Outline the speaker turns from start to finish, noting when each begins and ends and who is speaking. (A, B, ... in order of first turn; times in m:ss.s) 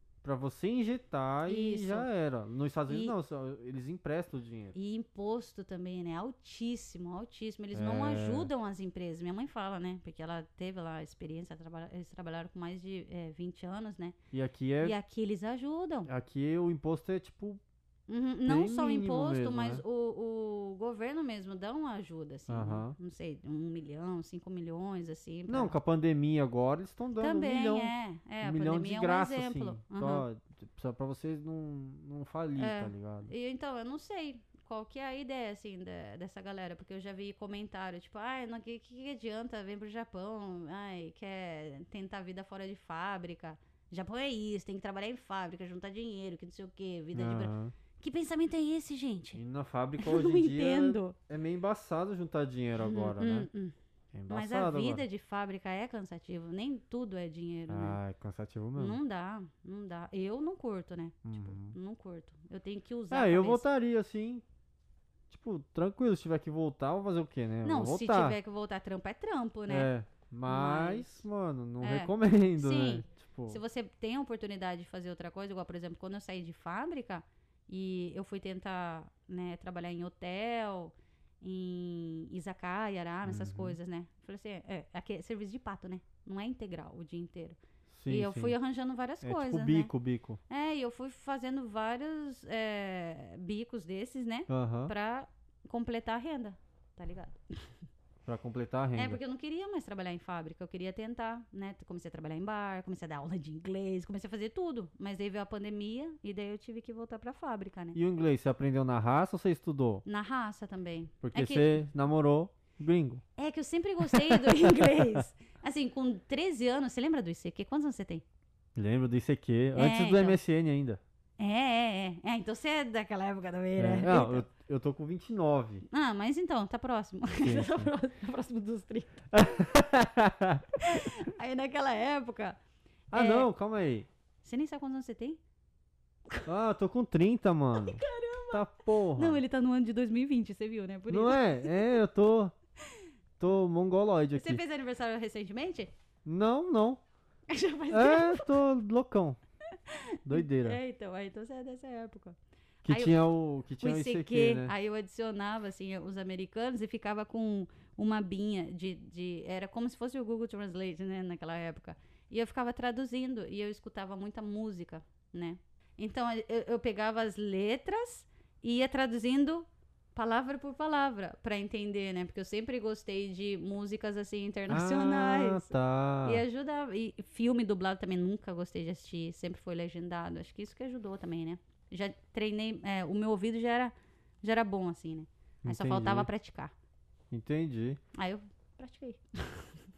0:00.2-0:04.7 A
0:01.4-0:02.1 B
0:02.9-0:03.1 B
0:04.7-0:14.2 B
0:07.7-0:08.5 A
0:14.3-0:15.0 A
0:14.8-0:16.1 B
0:16.0-0:17.6 A
0:18.1-0:25.7 B
0:18.4-0:19.8 A
0:22.5-0:23.0 A
0:25.5-0:33.3 A
0:27.2-0:30.2 B
0:32.6-0:49.4 B
0:47.1-0:47.7 A
0:49.4-0:53.5 A
0:50.0-0:51.2 B
0:52.8-0:53.7 B
0:54.1-0:55.0 A
0:54.3-0:58.0 B
0:57.7-0:59.0 A
0:58.8-1:03.6 B
1:01.2-1:01.7 A
1:03.1-1:04.4 A
1:05.3-1:08.4 A
1:07.6-1:09.9 B
1:09.7-1:13.6 A
1:10.5-1:11.1 B
1:11.8-1:29.9 B
1:23.2-1:23.8 A
1:27.9-1:28.5 A
1:29.2-1:30.4 A
1:30.5-1:37.7 B
1:34.5-1:34.9 A
1:38.2-1:39.2 A
1:38.9-1:48.0 B
1:47.9-1:50.0 A
1:50.0-1:51.7 B
1:51.2-1:53.2 A
1:53.4-1:58.2 B
1:54.0-1:55.2 A
1:58.8-2:01.0 A
1:59.7-2:00.4 B
2:01.4-2:04.4 B
2:03.8-2:05.8 A
2:05.9-2:09.2 B
2:07.3-2:07.9 A
2:09.3-2:10.7 A
2:10.8-2:12.6 B
2:13.1-2:13.5 B
2:13.1-2:14.1 A
2:14.4-2:15.4 B
2:16.4-2:19.4 A
2:17.7-2:21.7 B
2:21.1-2:22.5 A
2:23.4-2:24.6 A
2:24.3-2:25.9 B
2:26.2-2:27.0 A
2:27.5-2:28.6 B
2:27.9-2:29.4 A
2:29.7-2:33.2 B
2:30.2-2:30.8 A
2:32.8-2:34.7 A
2:33.8-2:55.7 B
2:54.7-2:56.4 A
2:56.2-3:06.7 B
3:05.6-3:06.3 A
3:07.3-3:08.0 A
3:08.1-3:09.7 B